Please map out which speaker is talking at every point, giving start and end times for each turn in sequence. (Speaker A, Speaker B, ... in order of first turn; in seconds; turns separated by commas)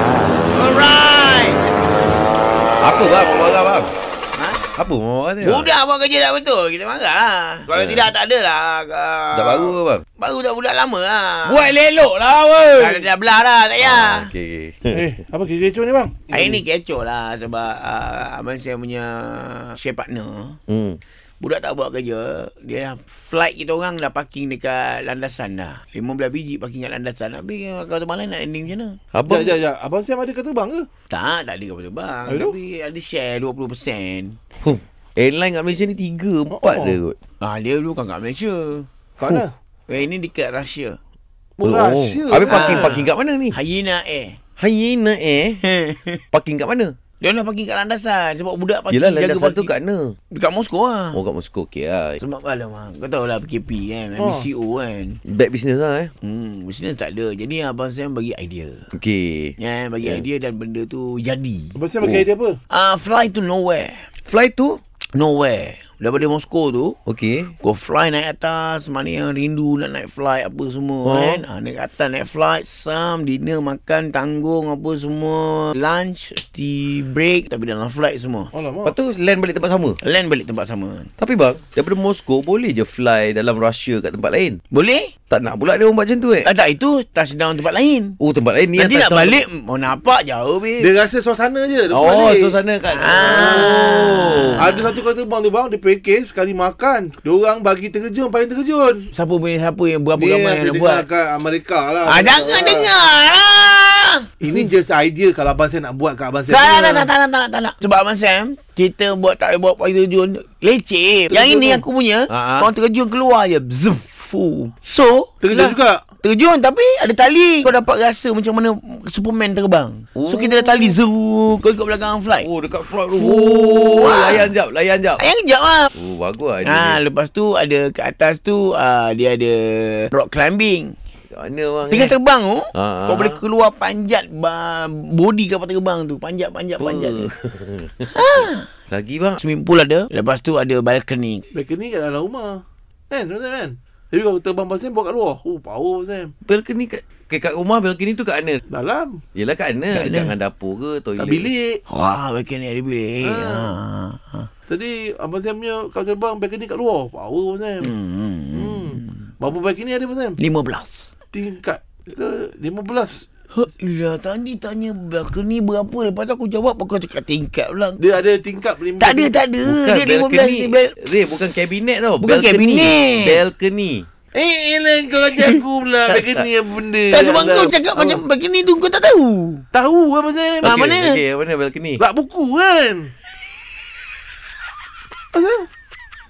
Speaker A: 0.5-1.6, Speaker B: 2.8-3.9, Speaker A: 4.3-4.7, Speaker B: 4.8-5.7, Speaker A: 5.4-11.7, Speaker B: 7.7-8.1, Speaker B: 9.3-10.0, Speaker B: 11.5-13.0, Speaker A: 12.8-14.3, Speaker B: 13.8-15.0, Speaker C: 14.9-16.6, Speaker A: 16.3-20.6, Speaker B: 20.7-21.0, Speaker A: 21.4-29.0, Speaker B: 29.1-29.5, Speaker C: 29.2-30.9, Speaker A: 31.1-34.4, Speaker C: 32.3-32.5, Speaker B: 34.6-37.2, Speaker C: 36.5-37.0, Speaker A: 37.4-38.9, Speaker C: 39.2-39.5, Speaker A: 39.9-41.0, Speaker C: 41.6-43.0, Speaker B: 41.6-43.5, Speaker A: 42.4-44.4, Speaker B: 44.6-45.6, Speaker A: 45.6-46.2, Speaker B: 46.3-46.9, Speaker A: 47.2-49.7, Speaker B: 48.9-50.1, Speaker A: 50.3-51.2, Speaker B: 51.1-52.2, Speaker A: 52.2-55.2, Speaker C: 54.2-54.5, Speaker B: 55.2-56.1, Speaker A: 56.2-58.9, Speaker B: 58.9-60.2, Speaker A: 59.6-61.8, Speaker C: 61.8-62.6, Speaker A: 62.7-64.0, Speaker B: 64.3-64.8, Speaker A: 65.1-67.0, Speaker B: 67.1-67.5, Speaker A: 67.6-78.5, Speaker B: 71.0-71.4, Speaker C: 78.5-79.0, Speaker B: 78.8-80.0, Speaker A: 80.0-81.1, Speaker B: 81.2-84.6, Speaker A: 84.7-85.1, Speaker B: 85.3-86.5, Speaker A: 86.4-88.2, Speaker B: 88.2-89.4, Speaker A: 88.8-90.9, Speaker C: 90.8-92.6, Speaker B: 91.9-94.7, Speaker A: 92.9-95.0, Speaker C: 93.2-93.9, Speaker C: 94.6-99.1, Speaker A: 99.1-101.0, Speaker C: 100.2-102.9, Speaker A: 102.1-104.3, Speaker C: 104.4-107.1, Speaker A: 106.5-122.5, Speaker C: 111.3-111.8, Speaker B: 112.3-112.7, Speaker C: 115.4-116.0, Speaker B: 120.2-120.9, Speaker B: 122.4-125.2, Speaker A: 123.1-124.5, Speaker A: 125.2-125.9, Speaker B: 125.9-127.0, Speaker A: 126.6-130.9, Speaker B: 131.3-132.1, Speaker A: 131.9-137.3, Speaker B: 132.7-133.4, Speaker B: 136.8-139.4, Speaker A: 138.1-138.7, Speaker A: 139.4-141.4, Speaker C: 141.5-146.3, Speaker B: 146.4-148.6, Speaker C: 148.7-149.2, Speaker B: 149.3-151.5, Speaker A: 149.9-150.3, Speaker C: 151.2-151.8, Speaker A: 151.9-154.5, Speaker C: 153.2-153.7, Speaker C: 154.7-157.9, Speaker A: 157.8-159.2, Speaker C: 158.5-160.4, Speaker A: 160.4-161.1, Speaker C: 161.3-163.2, Speaker A: 163.5-168.0, Speaker C: 168.0-169.3, Speaker A: 169.0-171.1, Speaker B: 169.6-174.1, Speaker A: 172.2-173.4, Speaker C: 174.3-178.2, Speaker A: 177.1-179.6, Speaker C: 179.7-180.8, Speaker B: 180.6-182.0, Speaker A: 180.6-181.2, Speaker C: 182.0-183.1, Speaker C: 185.3-185.6